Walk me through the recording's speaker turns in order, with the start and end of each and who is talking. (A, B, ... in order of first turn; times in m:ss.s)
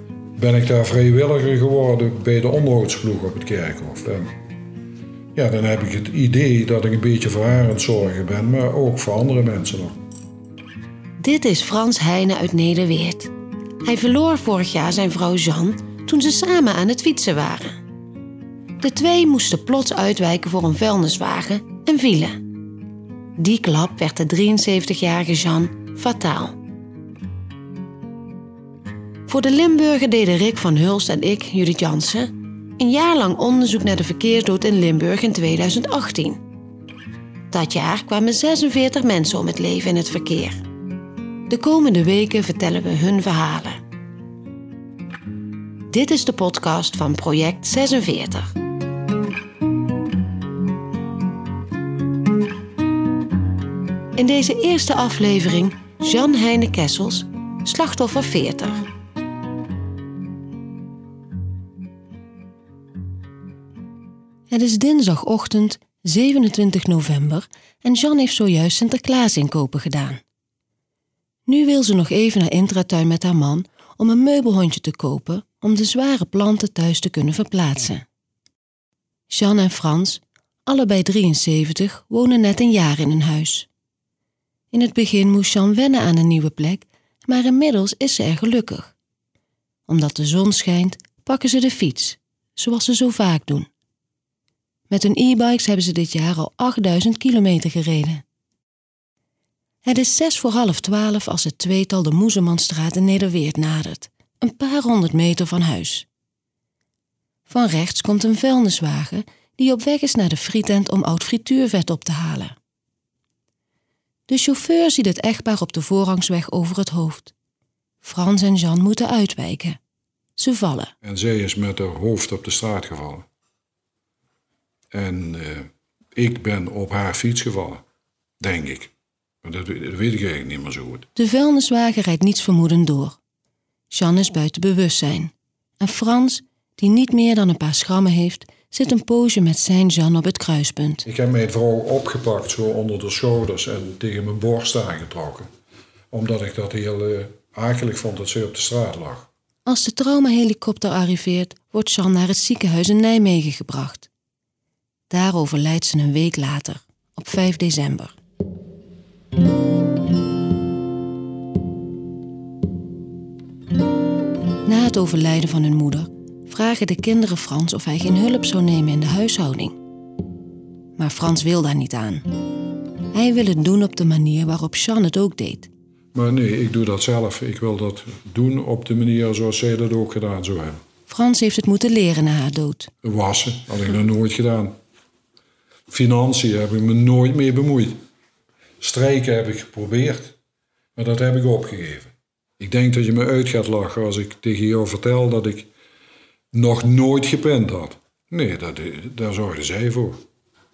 0:00.4-0:04.3 A
0:05.4-0:10.0 A
0:11.2-0:13.3 B
0:13.8-0:17.8 B
0:18.8-0:22.4 B
0:23.4-0:26.6 B
0:29.3-0:36.4 B
0:37.5-0:40.6 B
0:41.5-0:43.8 B
0:45.9-0:48.5 B
0:54.2-0:58.8 B
1:04.5-1:10.2 B
1:11.5-1:18.0 B
1:19.3-1:23.7 B
1:24.7-1:29.0 B
1:29.9-1:33.7 B
1:34.9-1:38.2 B
1:39.8-1:46.1 B
1:47.5-1:52.6 B
1:54.3-1:57.3 B
1:58.0-1:59.8 B
2:00.4-2:00.9 B
2:01.0-2:03.3 A
2:04.9-2:07.8 A
2:08.4-2:08.9 A
2:09.4-2:11.1 A
2:11.2-2:13.2 B
2:13.9-2:21.0 B
2:21.1-2:25.5 A
2:26.1-2:29.3 A
2:29.7-2:34.1 B
2:35.1-2:38.2 B
2:44.6-2:49.8 B
2:51.0-2:52.3 B
2:53.1-2:55.7 B
2:56.1-3:00.8 A
3:01.1-3:02.9 B
3:03.0-3:04.7 A
3:05.9-3:08.0 A
3:08.8-3:10.4 A
3:11.0-3:15.7 A
3:16.5-3:20.2 A